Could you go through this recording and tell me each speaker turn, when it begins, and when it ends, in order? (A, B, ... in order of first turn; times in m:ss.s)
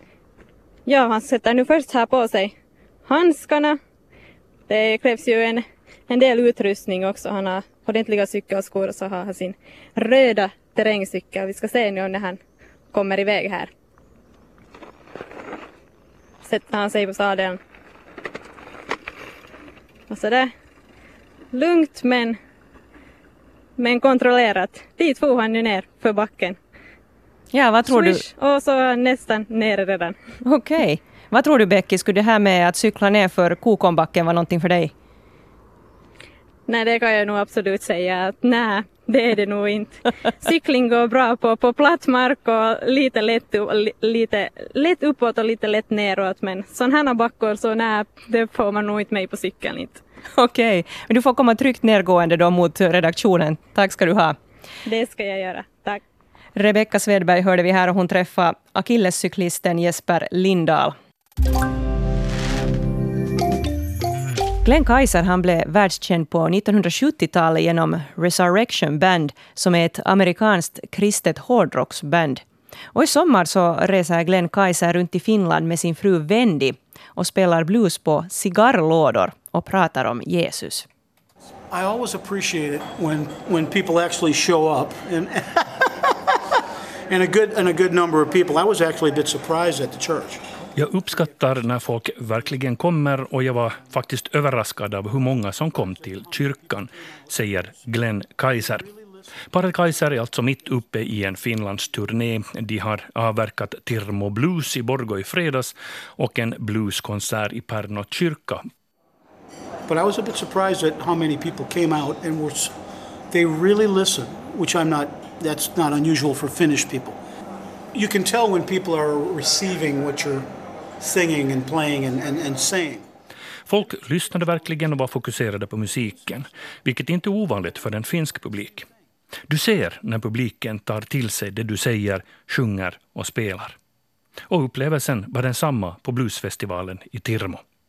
0:00.9-0:02.5 A
0:03.1-0:03.8 A
0:04.7-0:12.4 A
0:12.9-0:13.7 A
0:16.4-0:17.6 A
0:20.1-0:20.5 A
0:21.5-0:22.4 A
0:23.8-0:26.6 A
0:27.5-0:28.2 B
0:27.8-0:30.2 A
0:30.4-0:34.9 B
0:36.7-0:50.0 A
0:50.4-0:54.4 B
0:54.9-0:56.0 A
0:56.6-1:01.0 B
1:04.6-1:12.4 B
1:12.9-1:20.9 B
1:21.7-1:26.2 C
1:27.1-1:30.4 C
1:30.8-1:38.9 D
1:36.1-1:36.5 C
1:38.6-1:39.2 C
1:39.5-1:48.6 D
1:49.9-1:52.8 C
1:53.3-1:57.2 C
1:57.9-2:03.1 C
2:03.7-2:08.9 D
2:09.5-2:13.8 D
2:14.5-2:17.6 D